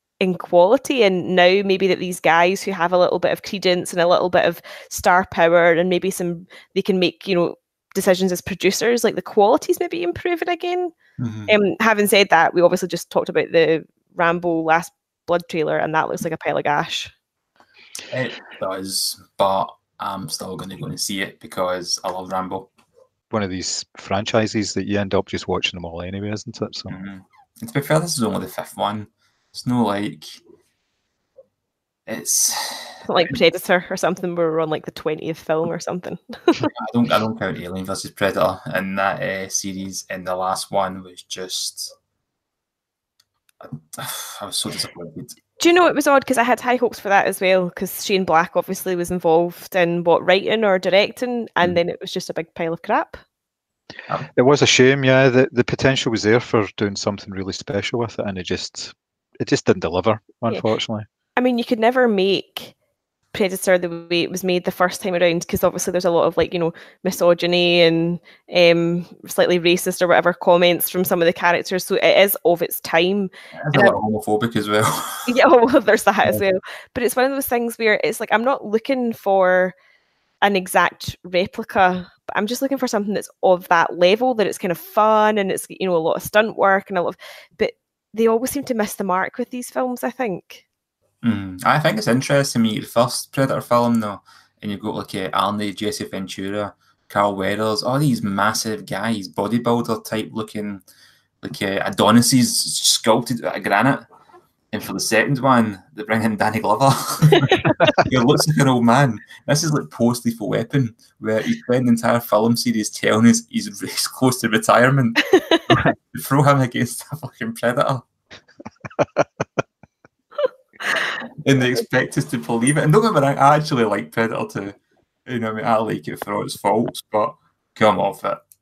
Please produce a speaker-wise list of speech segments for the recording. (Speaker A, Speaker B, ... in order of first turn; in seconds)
Speaker A: 0.2-10.9, 11.5-17.1, 33.1-36.7, 45.6-53.2, 61.4-62.7, 63.3-74.0, 75.3-79.7, 80.4-90.6
Speaker B: 11.2-11.5, 18.1-22.7, 26.9-30.4, 32.1-33.2, 36.7-41.9, 43.6-45.4, 73.6-75.3, 91.2-100.8, 101.4-104.1, 104.7-115.3, 116.0-118.1, 121.4-128.4
Speaker C: 23.3-26.9, 54.4-61.1